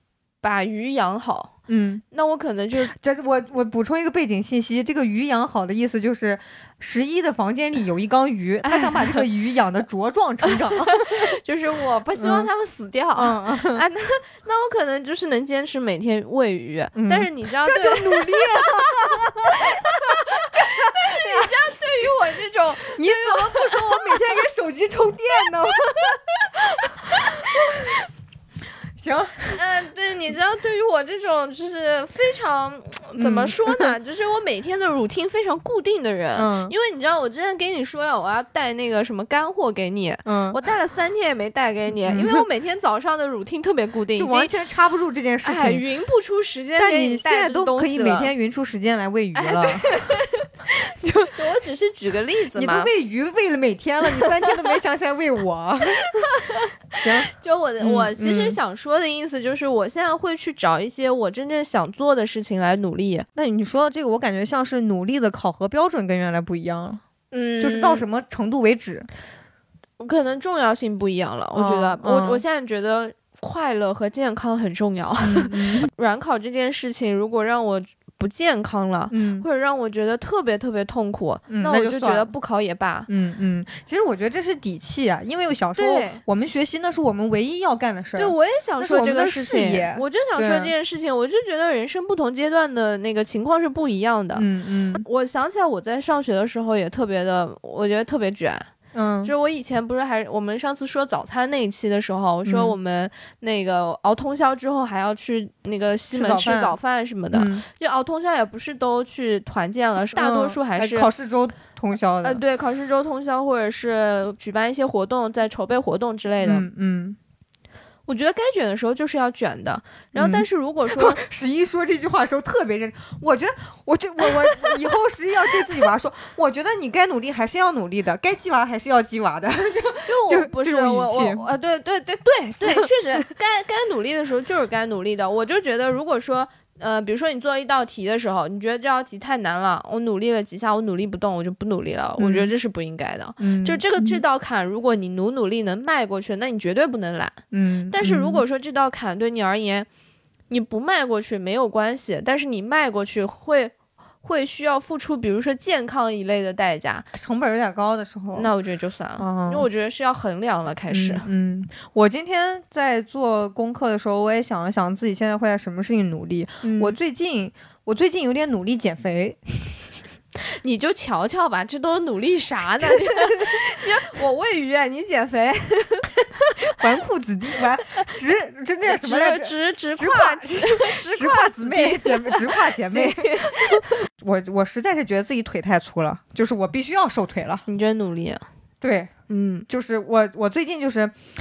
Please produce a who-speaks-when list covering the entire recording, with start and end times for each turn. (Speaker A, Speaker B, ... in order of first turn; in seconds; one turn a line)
Speaker A: 0.4-1.5
Speaker B: 1.7-2.0
Speaker A: 2.1-2.9
Speaker B: 2.9-11.3
Speaker A: 8.6-9.3
Speaker A: 10.5-24.4
Speaker B: 12.2-12.5
Speaker B: 13.2-13.8
Speaker B: 16.9-21.5
Speaker B: 22.9-28.0
Speaker A: 25.7-27.9
Speaker B: 29.0-29.6
Speaker A: 29.5-44.5
Speaker B: 33.2-33.9
Speaker B: 36.4-36.7
Speaker B: 40.2-40.6
Speaker B: 42.0-42.5
Speaker B: 44.2-45.8
Speaker A: 45.4-48.3
Speaker B: 46.8-49.9
Speaker A: 49.4-50.5
Speaker B: 50.7-51.3
Speaker A: 51.3-52.9
Speaker B: 52.5-56.3
Speaker A: 54.2-54.7
Speaker A: 56.1-63.3
Speaker B: 57.0-58.6
Speaker B: 63.4-67.0
Speaker A: 67.3-68.0
Speaker B: 67.6-69.1
Speaker A: 70.0-83.1
Speaker B: 71.5-72.4
Speaker B: 75.2-75.9
Speaker B: 79.1-79.5
Speaker B: 81.5-82.3
Speaker B: 83.1-90.7
Speaker A: 85.8-86.2
Speaker A: 88.2-94.5
Speaker B: 94.3-95.0
Speaker A: 95.0-98.7
Speaker B: 98.9-99.3
Speaker A: 99.2-111.1
Speaker B: 102.5-102.8
Speaker B: 106.1-106.8
Speaker B: 107.3-107.6
Speaker B: 110.1-112.4
Speaker A: 112.2-116.7
Speaker B: 116.4-117.2
Speaker A: 118.1-121.2
Speaker B: 120.2-131.5
Speaker A: 130.1-147.4
Speaker B: 142.2-142.5
Speaker B: 143.4-144.2
Speaker B: 147.5-148.4
Speaker A: 147.9-149.9
Speaker A: 150.5-157.1
Speaker B: 157.1-158.5
Speaker A: 158.3-161.3
Speaker B: 159.2-159.7
Speaker B: 160.9-169.8
Speaker A: 166.6-167.0
Speaker A: 170.6-176.8
Speaker B: 172.8-173.6
Speaker B: 176.8-187.6
Speaker A: 178.9-184.0
Speaker A: 187.7-188.4
Speaker B: 188.8-189.1
Speaker A: 189.3-189.7
Speaker B: 189.7-191.2